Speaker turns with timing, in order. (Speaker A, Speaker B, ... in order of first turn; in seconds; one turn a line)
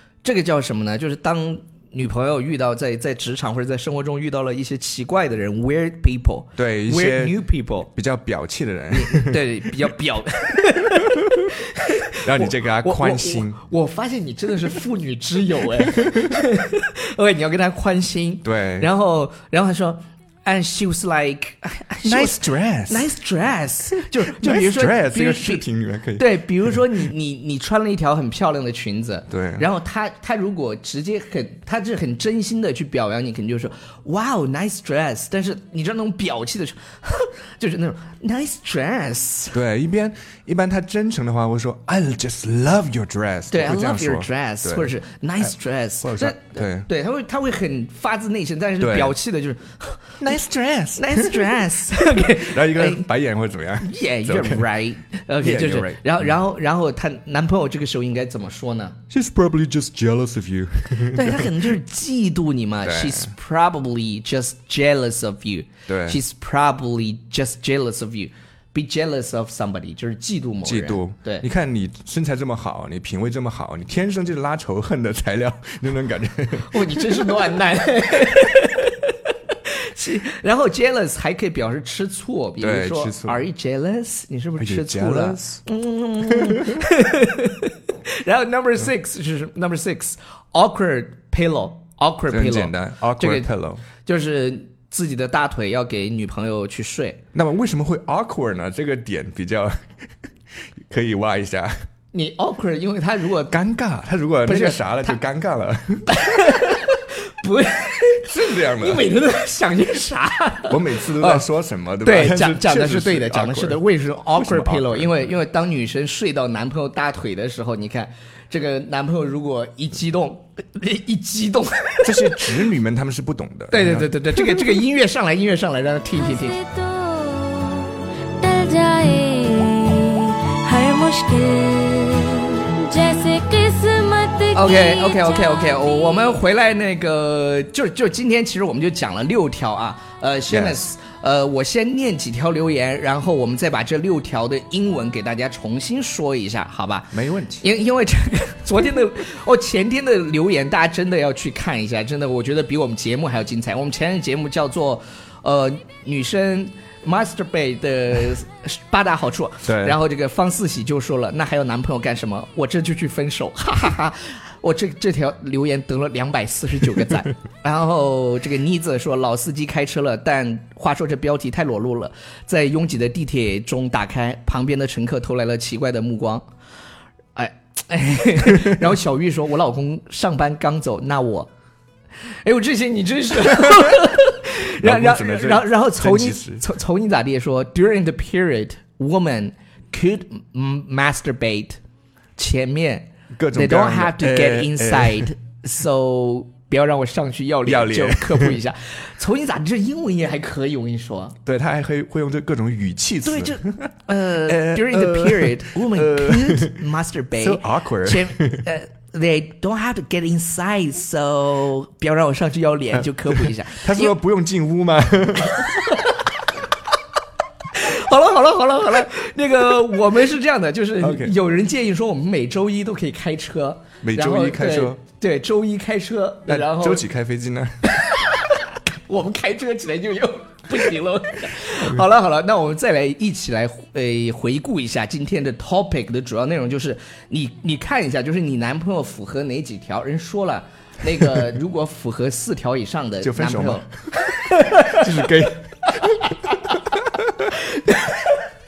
Speaker A: 0.2-7.9
Speaker B: 6.6-9.4
Speaker A: 8.9-25.6
Speaker B: 12.2-13.6
Speaker B: 15.8-16.3
Speaker B: 18.4-18.9
Speaker B: 22.0-23.1
Speaker B: 24.3-26.8
Speaker A: 26.2-39.6
Speaker B: 29.3-29.6
Speaker B: 39.5-44.9
Speaker A: 43.5-50.2
Speaker B: 46.0-46.9
Speaker B: 48.8-49.1
Speaker B: 50.2-51.6
Speaker A: 51.0-53.0
Speaker B: 52.2-54.7
Speaker A: 53.8-59.0
Speaker B: 55.4-56.3
Speaker B: 59.1-61.6
Speaker A: 61.1-71.5
Speaker B: 62.8-63.3
Speaker B: 65.9-66.2
Speaker B: 70.6-77.3
Speaker A: 76.7-97.2
Speaker B: 82.6-83.4
Speaker B: 84.6-85.6
Speaker B: 86.3-86.8
Speaker B: 92.3-93.8
Speaker B: 97.3-99.9
Speaker B: 100.9-101.7
Speaker A: 102.1-103.5
Speaker B: 103.5-106.2
Speaker A: 104.4-105.2
Speaker A: 106.1-111.4
Speaker B: 108.2-109.0
Speaker B: 110.7-115.3
Speaker A: 112.0-122.6
Speaker B: 122.0-124.7
Speaker A: 123.7-126.6
Speaker C: 126.1-136.3
Speaker A: 134.5-176.4
Speaker B: 140.5-140.8
Speaker B: 147.1-147.6
Speaker B: 159.7-159.9
Speaker A: 177.3-181.5
Speaker A: 182.4-191.8
Speaker B: 184.8-186.6
Speaker A: 192.3-201.3
Speaker B: 193.3-195.3
Speaker B: 197.7-198.6
Speaker B: 201.4-203.9
Speaker A: 203.2-214.1
Speaker B: 204.5-206.8
Speaker B: 207.4-208.7
Speaker B: 213.3-215.9
Speaker A: 215.7-216.2
Speaker A: 217.7-227.0
Speaker B: 221.0-221.3
Speaker B: 224.0-225.0
Speaker B: 226.5-227.7
Speaker A: 227.8-245.0
Speaker B: 243.2-243.8
Speaker B: 244.7-246.3
Speaker A: 246.2-246.8
Speaker A: 247.5-248.4